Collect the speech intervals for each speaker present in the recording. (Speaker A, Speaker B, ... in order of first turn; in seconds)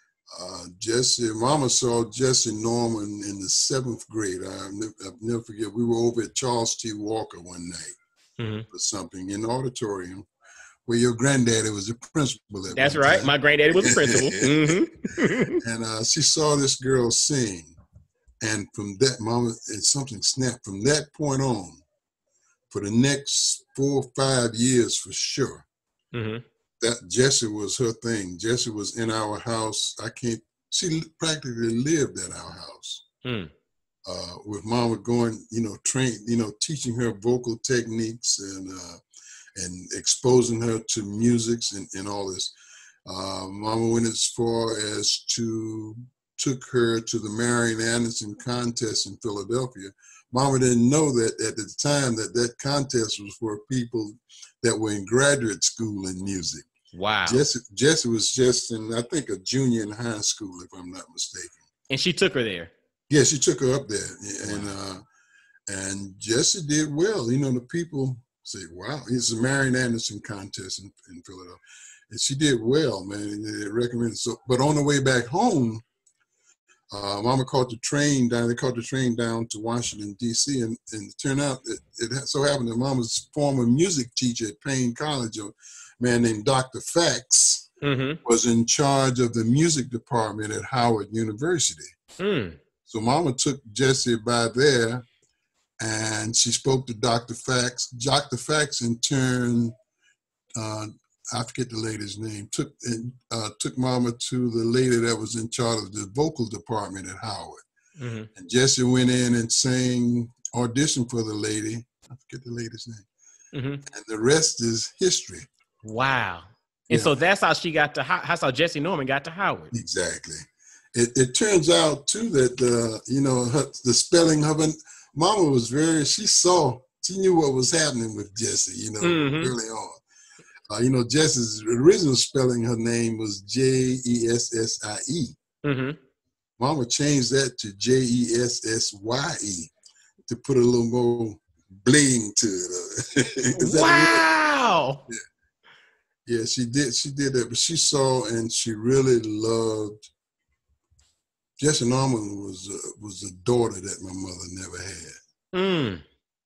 Speaker A: 0.3-7.9, 8.7-10.2, 10.9-14.8, 15.6-17.8, 18.4-21.8, 22.7-25.7, 26.8-33.0, 34.0-39.0, 39.5-42.5, 43.0-56.6, 57.2-61.6, 63.1-65.0, 65.7-75.8, 76.9-87.7, 88.2-91.9, 92.8-95.0, 95.8-99.7, 100.6-107.6, 108.3-113.0, 113.9-115.5, 119.7-130.0, 130.7-135.3, 136.6-139.7, 140.3-144.2, 146.2-150.1, 151.6-155.2
Speaker B: 8.4-8.7, 12.7-15.6, 26.1-26.4, 33.2-33.5, 56.9-57.4, 61.9-62.7, 64.4-64.7, 87.8-88.2, 92.2-92.6, 108.0-108.3, 113.5-113.8, 115.8-119.7, 129.0-129.5, 135.6-136.0, 143.6-145.0, 155.5-156.0